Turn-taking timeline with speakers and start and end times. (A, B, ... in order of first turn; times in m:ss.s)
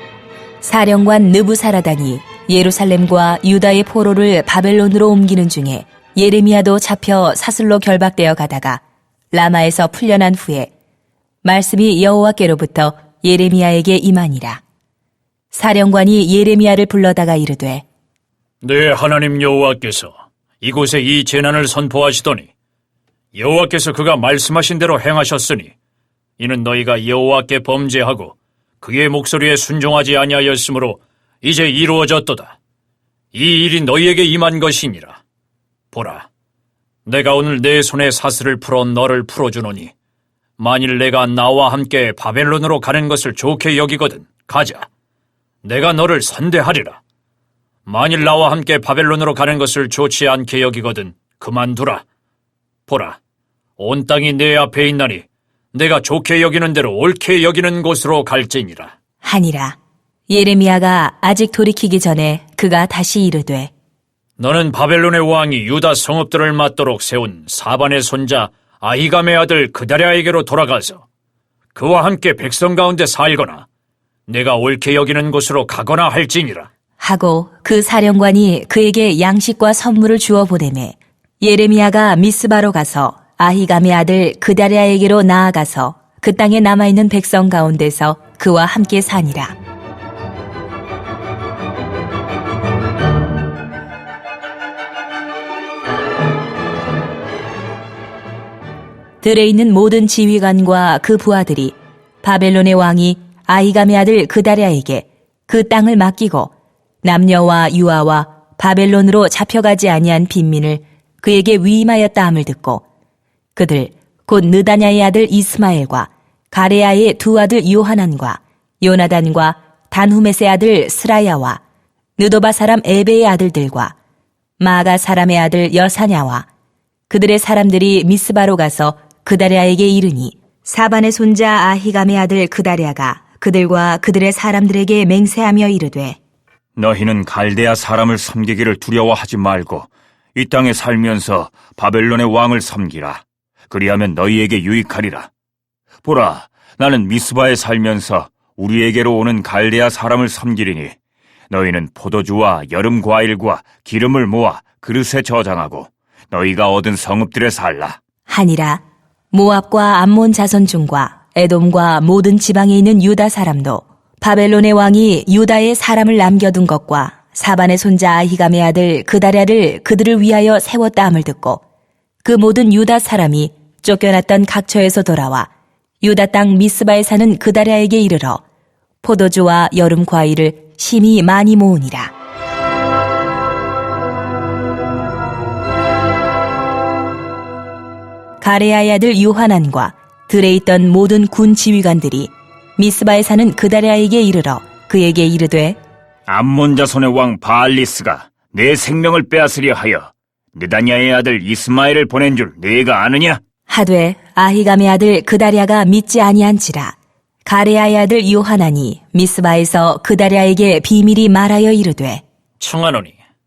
0:00.6-0:10.7 A
0:11.4-0:14.6 A
0:15.5-0:17.8 A
0:18.6-0:22.5 B
0:23.3-0:25.7 B
0:26.4-0:32.5 B
0:33.3-0:35.2 B
0:35.9-0:36.3 B
0:37.0-0:39.9 B
0:40.6-0:44.9 B
0:45.6-0:47.0 B
0:47.8-0:52.0 B
0:52.9-0:53.2 B
0:53.8-0:58.9 B
0:59.2-0:59.8 A
1:00.3-1:03.7 A
1:04.4-1:11.0 B
1:11.7-1:13.6 B
1:14.3-1:16.7 B
1:17.0-1:29.5 A
1:39.2-1:46.5 A
1:47.0-1:52.8 A
1:53.6-2:01.6 A
2:02.2-2:03.9 A
2:04.6-2:06.5 A
2:07.1-2:16.2 A
2:16.8-2:25.3 C
2:26.0-2:31.0 C
2:31.5-2:38.0 C
2:38.3-2:51.6 A
2:52.2-2:55.5 A
2:56.0-2:58.4 A
2:59.0-3:02.1 A
3:08.4-3:15.8 A
3:16.3-3:23.4 C
3:23.7-3:32.2 A
3:32.6-3:33.2 B